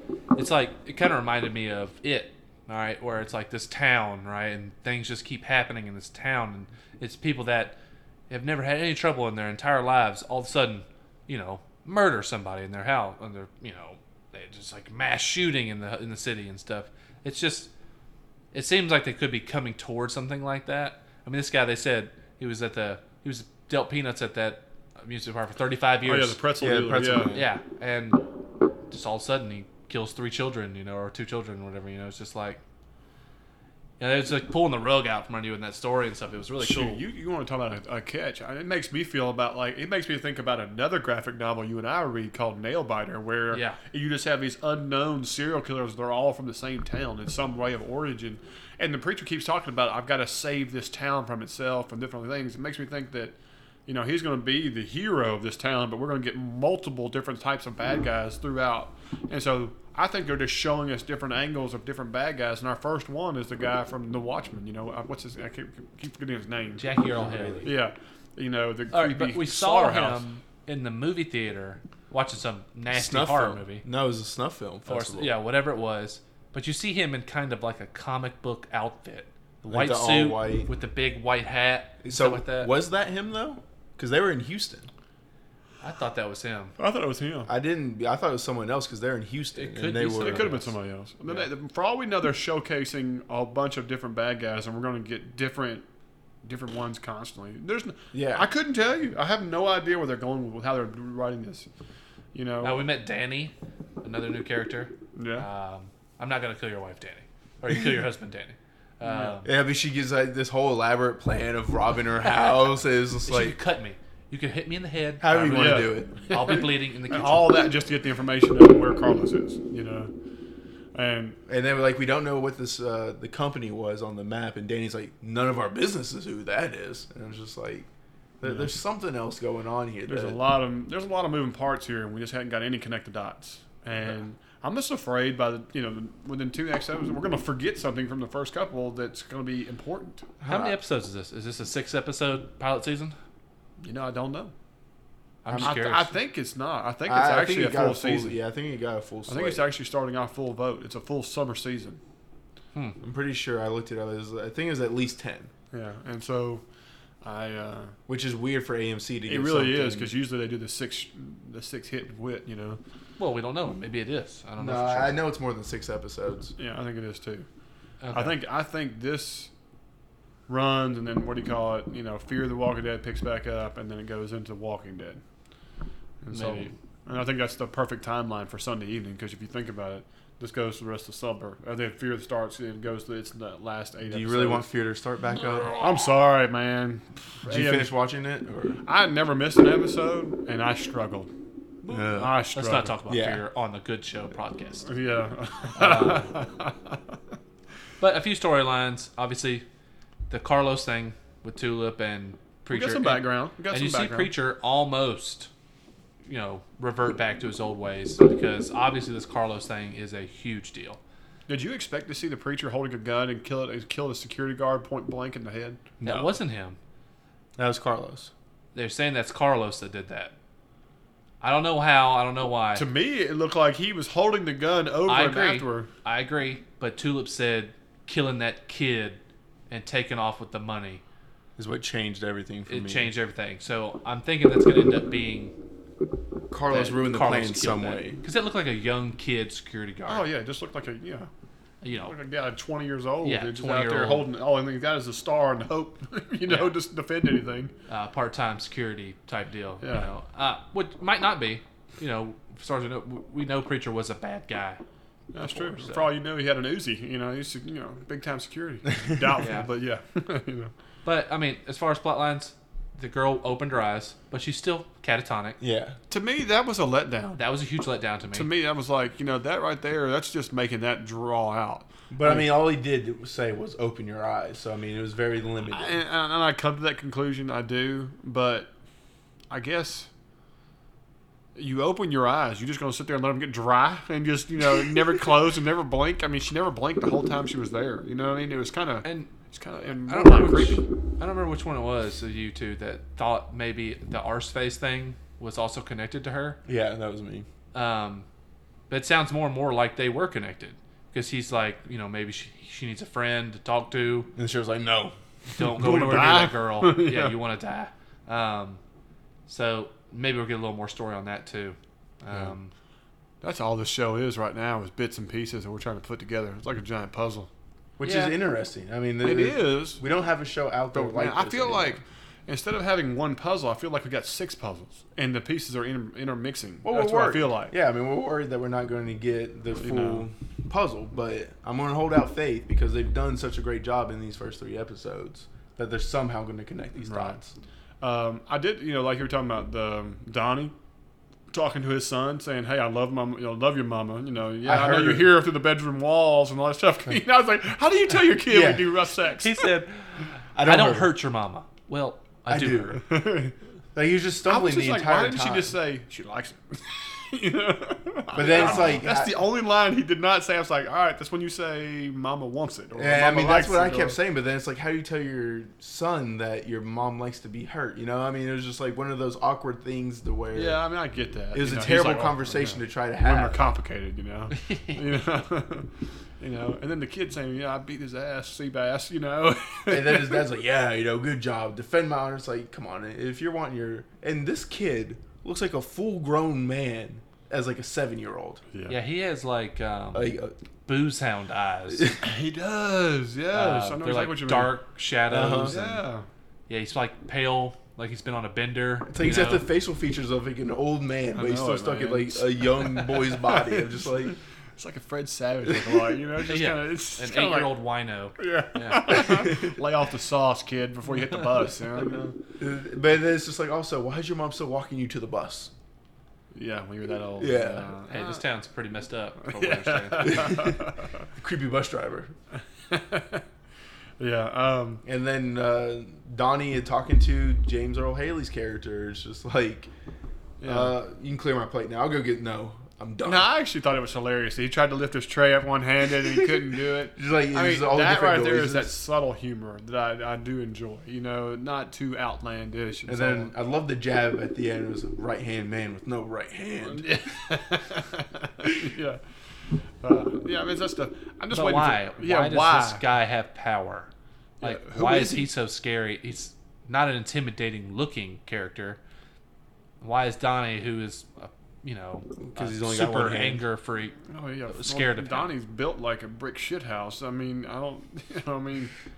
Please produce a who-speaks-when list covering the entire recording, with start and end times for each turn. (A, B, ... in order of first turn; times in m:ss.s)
0:00.4-0:07.8 A
0:08.3-0:17.7 A
0:18.5-0:26.4 A
0:26.0-0:27.3 B
0:26.6-0:27.5 C
0:27.3-0:28.2 A
0:28.9-0:32.6 A
0:34.0-0:37.0 A
0:36.6-0:53.3 B
0:43.5-0:43.8 A
0:53.9-1:06.9 B
1:06.8-1:07.7 A
1:07.2-1:07.7 C
1:07.6-1:10.2 B
1:08.9-1:13.8 A
1:12.9-1:15.3 C
1:14.9-1:22.7 A
1:19.7-1:20.7 C
1:22.0-1:24.9 C
1:25.8-1:26.7 A
1:26.8-1:27.5 B
1:27.5-1:30.6 C
1:29.6-1:30.7 A
1:30.2-1:35.8 B
1:36.4-1:41.7 B
1:38.1-1:38.5 C
1:42.3-1:42.8 B
1:42.6-1:49.5 A
1:45.1-1:45.5 B
1:49.0-1:49.4 B
1:49.4-1:53.6 C
1:53.3-1:57.5 A
1:55.2-1:56.2 C
1:55.4-2:00.1 B
2:00.9-2:01.4 B
2:01.5-2:07.9 C
2:08.4-2:10.4 C
2:10.1-2:20.2 B
2:20.4-2:20.8 C
2:20.5-2:23.2 A
2:23.8-2:24.5 B
2:25.4-2:26.1 A
2:25.5-2:25.8 C
2:25.6-2:28.4 B
2:27.0-2:29.6 C
2:29.3-2:32.0 B
2:33.0-2:35.5 C
2:35.7-2:36.6 B
2:37.2-2:38.0 B
2:38.1-2:40.1 C
2:39.3-2:42.8 B
2:43.2-2:45.2 A
2:44.6-2:46.5 C
2:46.6-2:47.4 B
2:48.0-2:48.4 A
2:48.1-2:49.5 B
2:50.5-2:55.2 B
2:56.2-3:04.7 B
2:56.3-2:56.7 A
3:04.1-3:05.8 C
3:05.7-3:07.9 B
3:07.4-3:08.8 C
3:08.8-3:11.3 B
3:11.9-3:12.4 C
3:12.0-3:12.9 B
3:12.5-3:14.9 A
3:13.1-3:13.4 C
3:14.8-3:17.0 B
3:15.8-3:16.3 A
3:18.0-3:19.6 A
3:20.3-3:25.5 A
3:22.7-3:24.3 B
3:26.2-3:31.0 A
3:31.5-3:35.8 B
3:36.0-3:36.8 A
3:36.0-3:36.4 C
3:37.6-3:38.3 C
3:38.7-3:40.3 A
3:41.4-3:42.8 A
3:42.7-3:45.9 B
3:45.1-3:51.0 A
3:51.6-3:53.1 C
3:52.7-3:55.5 A
3:56.5-3:58.2 C
3:56.7-4:00.3 A
4:00.1-4:01.3 B
4:01.8-4:02.1 A
4:02.0-4:07.7 B
4:03.2-4:04.2 A
4:06.4-4:06.7 A
4:07.9-4:14.8 A
4:09.8-4:10.1 B
4:15.3-4:20.7 B
4:15.4-4:16.1 A
4:19.4-4:19.7 A
4:21.0-4:25.6 A
4:25.6-4:26.0 C
4:26.1-4:27.4 B
4:27.3-4:28.5 A
4:28.3-4:32.5 B
4:32.1-4:36.0 C
4:35.7-4:38.7 B
4:39.5-4:40.1 B
4:41.5-4:50.8 B
4:49.0-4:49.3 A
4:50.1-4:56.6 A
4:56.6-4:57.4 C
4:57.7-4:58.2 A
4:58.9-5:04.3 A
5:04.3-5:05.1 C
5:05.5-5:08.8 A
5:05.6-5:07.4 B
5:09.5-5:12.7 A
5:13.4-5:17.5 B
5:18.0-5:22.0 C
5:18.0-5:18.3 A
5:19.2-5:20.0 B
5:20.9-5:27.7 B
5:26.8-5:37.5 C
5:29.8-5:30.3 B
5:37.0-5:37.4 B
5:38.0-5:40.7 B
5:41.5-5:49.5 B
5:44.6-5:45.4 C
5:48.4-5:48.9 C
5:49.4-5:53.0 A
5:50.5-5:51.1 C
5:52.5-5:53.0 C
5:53.0-5:53.5 B
5:53.9-5:55.7 C
5:54.4-6:04.2 B
5:58.3-5:59.4 C
6:02.9-6:10.8 C
6:10.5-6:20.4 B
6:11.5-6:13.6 C
6:14.6-6:14.9 A
6:19.9-6:28.6 C
6:28.7-6:29.0 B
6:28.9-6:32.1 A
6:30.1-6:30.5 C
6:31.9-6:32.2 C
6:32.2-6:34.7 B
6:33.5-6:36.0 A
6:35.3-6:35.8 C
6:35.6-6:36.3 B
6:36.7-6:39.7 A
6:39.1-6:44.3 C
6:41.3-6:47.8 B
6:46.4-6:49.4 A
6:48.4-6:52.4 B
6:49.4-6:49.7 C
6:52.6-6:55.7 C
6:56.5-6:58.4 B
6:57.4-6:57.9 C
6:58.1-7:00.6 A
6:59.4-7:01.1 B
7:00.4-7:00.7 C
7:01.4-7:02.3 C
7:02.9-7:03.4 B
7:04.2-7:05.0 B
7:05.0-7:09.9 C
7:10.6-7:10.9 B
7:10.6-7:13.5 C
7:13.2-7:23.5 B
7:17.1-7:18.9 C
7:23.1-7:27.0 C
7:26.8-7:29.2 B
7:30.0-7:33.0 B
7:31.5-7:34.1 A
7:34.6-7:35.4 B
7:34.6-7:39.0 A
7:40.0-7:45.5 A
7:42.4-7:43.6 C
7:44.3-7:48.9 B